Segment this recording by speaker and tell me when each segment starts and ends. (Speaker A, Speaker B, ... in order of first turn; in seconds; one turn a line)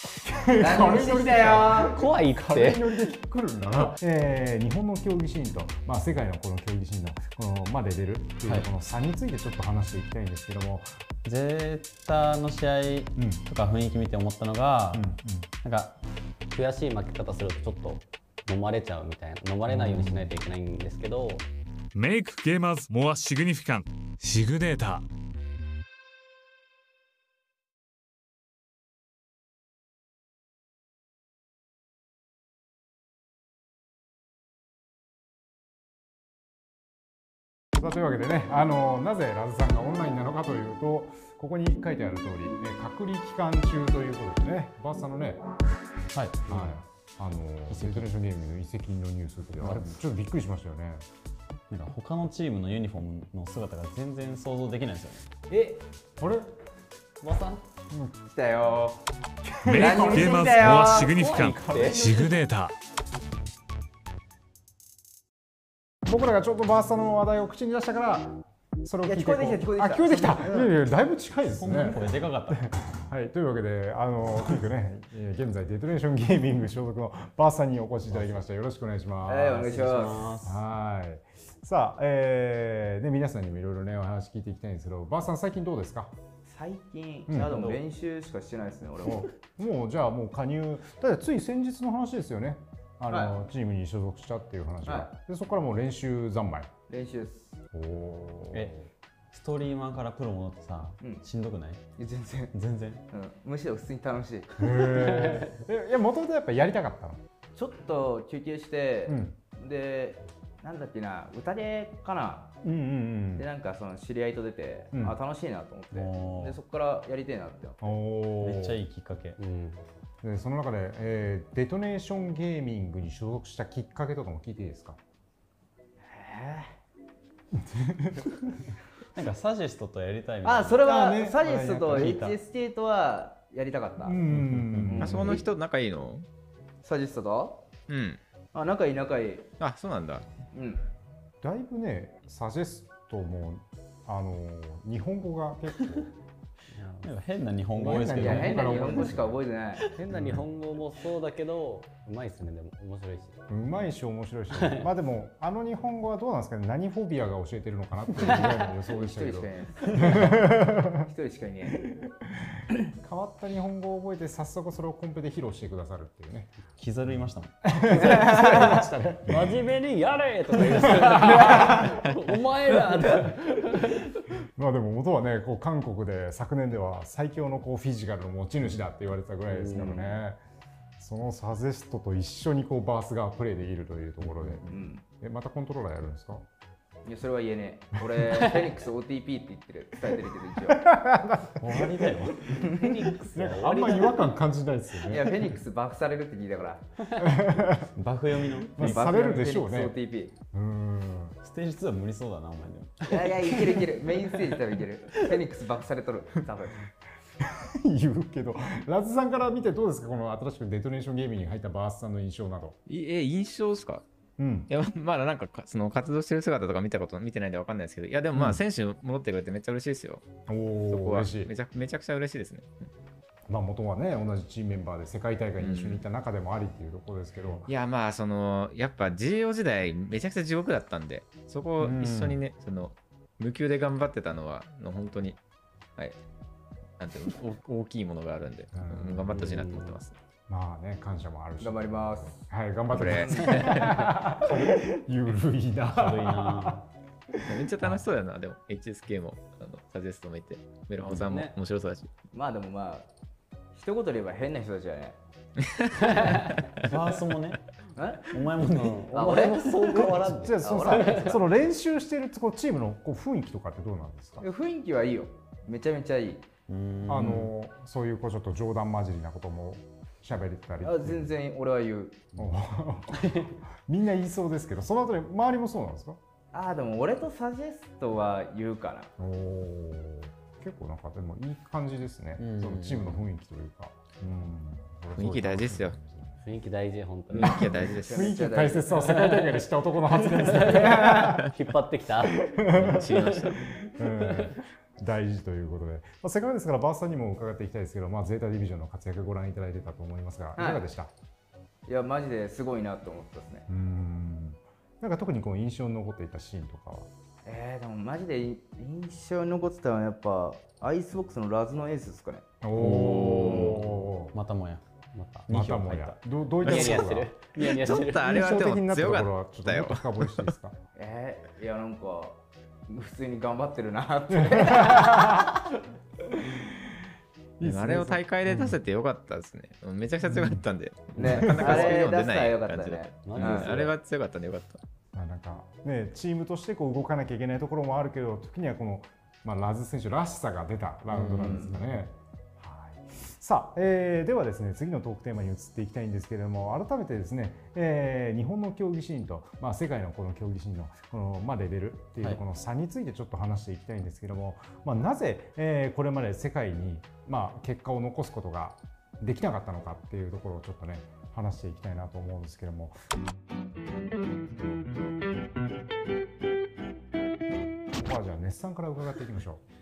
Speaker A: 0.2-10.9
Speaker B: 0.6-2.0
Speaker C: 1.8-3.0
Speaker D: 11.2-15.1
Speaker A: 13.2-13.4
Speaker A: 14.9-15.5
Speaker D: 15.6-16.0
Speaker C: 16.5-21.5
Speaker A: 19.7-20.3
Speaker E: 21.9-25.1
Speaker A: 37.8-45.4
Speaker D: 46.1-46.8
Speaker A: 46.5-51.0
Speaker D: 47.7-48.1
Speaker D: 51.7-55.3
Speaker C: 55.5-55.8
Speaker A: 56.2-56.5
Speaker C: 57.2-57.6
Speaker A: 57.9-58.1
Speaker B: 58.3-59.0
Speaker A: 59.4-60.5
Speaker E: 59.7-62.7
Speaker B: 59.7-62.1
Speaker C: 60.9-62.3
Speaker A: 66.0-79.8
Speaker B: 69.0-70.7
Speaker D: 71.5-72.7
Speaker D: 78.1-78.4
Speaker B: 79.2-80.3
Speaker D: 79.6-80.6
Speaker A: 80.4-86.1
Speaker B: 86.5-89.3
Speaker A: 87.3-87.6
Speaker D: 87.4-87.8
Speaker A: 89.0-96.7
Speaker B: 93.1-93.4
Speaker B: 94.8-95.1
Speaker B: 96.9-97.6
Speaker A: 97.7-98.9
Speaker D: 99.3-101.8
Speaker B: 102.0-102.5
Speaker D: 102.5-103.0
Speaker B: 103.1-104.9
Speaker A: 104.6-107.2
Speaker B: 107.5-112.5
Speaker A: 109.1-109.4
Speaker A: 112.6-113.5
Speaker B: 113.4-117.9
Speaker D: 115.9-116.6
Speaker A: 117.8-118.8
Speaker D: 118.4-119.4
Speaker C: 119.4-119.8
Speaker A: 120.2-125.0
Speaker B: 126.0-126.7
Speaker A: 127.5-128.3
Speaker D: 129.1-130.9
Speaker B: 130.4-134.2
Speaker A: 130.8-132.2
Speaker D: 131.8-132.4
Speaker A: 134.0-135.4
Speaker D: 134.3-135.4
Speaker B: 134.9-135.4
Speaker F: 135.0-136.2
Speaker B: 136.8-137.7
Speaker F: 137.9-138.2
Speaker B: 138.5-139.5
Speaker F: 139.6-140.2
Speaker B: 140.5-140.8
Speaker A: 141.4-146.1
Speaker C: 146.7-147.1
Speaker D: 147.0-149.2
Speaker A: 147.7-149.4
Speaker B: 147.9-149.9
Speaker C: 149.9-153.4
Speaker A: 150.1-150.4
Speaker A: 153.5-161.1
Speaker C: 154.6-154.8
Speaker B: 158.9-161.8
Speaker A: 161.9-166.5
Speaker D: 166.8-167.7
Speaker A: 167.6-169.6
Speaker B: 167.9-168.8
Speaker C: 169.3-174.1
Speaker A: 170.6-172.1
Speaker A: 174.6-180.4
Speaker C: 179.5-180.2
Speaker A: 181.0-186.4
Speaker B: 184.7-185.0
Speaker B: 187.0-190.9
Speaker A: 190.7-192.2
Speaker D: 191.6-192.6
Speaker B: 192.5-192.9
Speaker C: 192.6-194.2
Speaker A: 193.3-195.6
Speaker B: 195.0-196.8
Speaker A: 197.2-197.9
Speaker D: 197.9-199.2
Speaker A: 198.8-199.9
Speaker B: 198.8-200.3
Speaker A: 200.5-201.4
Speaker D: 201.4-204.6
Speaker B: 203.1-206.8
Speaker A: 207.4-212.8
Speaker F: 212.9-214.0
Speaker A: 214.4-214.7
Speaker F: 214.7-220.2
Speaker A: 218.3-218.6
Speaker A: 220.5-221.5
Speaker F: 220.9-222.7
Speaker A: 223.5-227.7
Speaker F: 225.6-226.0
Speaker F: 227.7-235.4
Speaker A: 231.8-232.4
Speaker F: 237.0-240.1
Speaker A: 238.7-239.6
Speaker C: 239.3-240.0
Speaker A: 240.5-248.1
Speaker B: 241.6-242.4
Speaker F: 242.9-244.0
Speaker B: 243.2-243.6
Speaker D: 245.9-246.8
Speaker F: 247.4-252.1
Speaker C: 251.2-251.5
Speaker B: 252.3-253.1
Speaker B: 253.7-255.2
Speaker C: 256.0-256.6
Speaker D: 256.8-257.6
Speaker B: 257.9-258.4
Speaker D: 258.3-259.2
Speaker C: 258.7-261.4
Speaker B: 259.1-260.0
Speaker A: 259.8-264.4
Speaker B: 260.6-261.4
Speaker B: 264.4-266.5
Speaker D: 266.7-267.5
Speaker A: 267.1-271.3
Speaker B: 270.8-272.3
Speaker A: 272.4-276.2
Speaker B: 276.5-279.1
Speaker A: 279.2-286.4
Speaker D: 282.4-283.2
Speaker F: 285.1-286.0
Speaker C: 286.4-287.7
Speaker F: 287.3-288.4
Speaker A: 287.4-291.5
Speaker B: 287.8-289.4
Speaker C: 289.1-289.5
Speaker C: 290.3-293.5
Speaker A: 292.3-301.1
Speaker F: 292.7-293.7
Speaker C: 294.0-294.6
Speaker B: 300.6-300.9
Speaker B: 301.9-303.7
Speaker A: 303.7-307.1
Speaker B: 307.4-312.5
Speaker A: 312.6-314.3
Speaker D: 312.7-314.8
Speaker F: 313.2-313.7
Speaker C: 315.1-315.4
Speaker D: 315.5-316.2
Speaker A: 315.5-317.3
Speaker C: 316.6-318.2
Speaker F: 316.6-320.5
Speaker A: 317.9-320.8
Speaker B: 320.9-325.5
Speaker A: 324.3-325.6
Speaker A: 326.3-326.9
Speaker A: 327.6-328.8
Speaker F: 327.6-334.8
Speaker A: 330.2-330.6
Speaker B: 331.2-333.7
Speaker A: 331.2-331.9
Speaker C: 333.2-333.9
Speaker A: 335.1-363.0
Speaker D: 341.2-341.7
Speaker B: 341.3-341.7
Speaker A: 367.9-369.6